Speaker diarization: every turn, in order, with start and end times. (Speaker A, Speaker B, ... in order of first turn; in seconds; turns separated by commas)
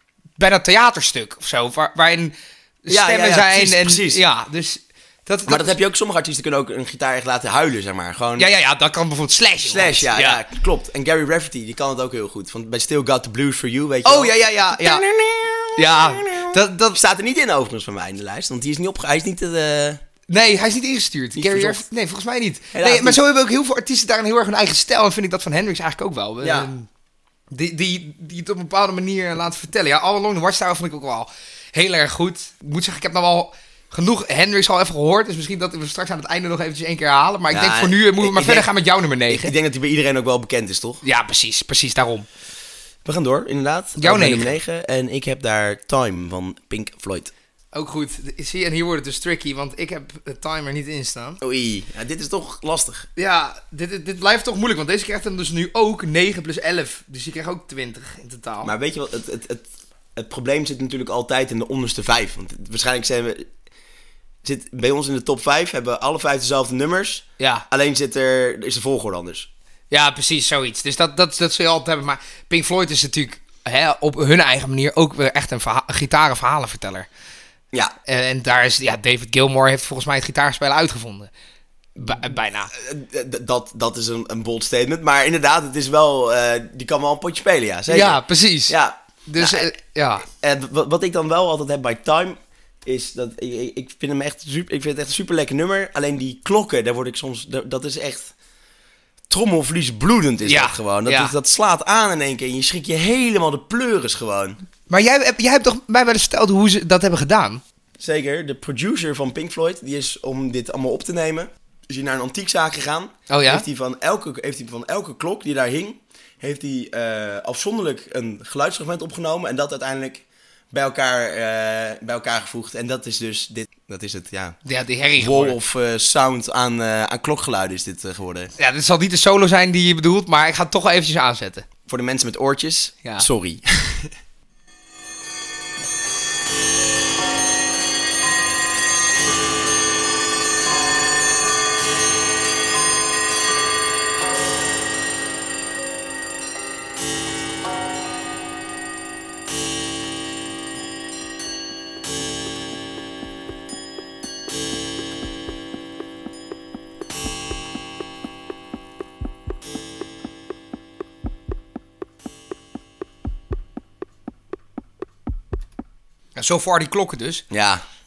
Speaker A: 0.4-5.8, Speaker B: 2.9-4.2, Speaker B: 5.5-8.5, Speaker A: 8.4-10.4, Speaker B: 9.6-20.0, Speaker A: 14.0-15.0, Speaker A: 15.8-17.0, Speaker A: 20.3-26.9, Speaker B: 21.4-21.9, Speaker B: 22.7-23.2, Speaker B: 26.4-26.7, Speaker A: 27.5-39.5, Speaker B: 37.5-38.7, Speaker B: 39.3-41.0, Speaker A: 41.0-42.3, Speaker B: 43.0-47.3, Speaker A: 44.0-44.5, Speaker A: 47.7-51.4, Speaker B: 51.4-53.1, Speaker A: 53.1-58.7, Speaker B: 58.6-63.5, Speaker B: 64.4-69.5, Speaker A: 67.4-67.7, Speaker A: 69.9-77.1, Speaker A: 78.1-81.3, Speaker A: 82.0-82.7, Speaker B: 82.0-89.7, Speaker A: 87.9-90.2, Speaker B: 90.3-98.3, Speaker B: 99.3-104.6, Speaker A: 100.5-101.3, Speaker A: 104.9-107.6, Speaker B: 108.0-124.6, Speaker A: 113.3-113.6, Speaker A: 124.6-125.5, Speaker B: 125.1-128.5, Speaker A: 128.6-131.7, Speaker B: 131.9-134.1, Speaker A: 166.3-167.4, Speaker B: 167.5-167.8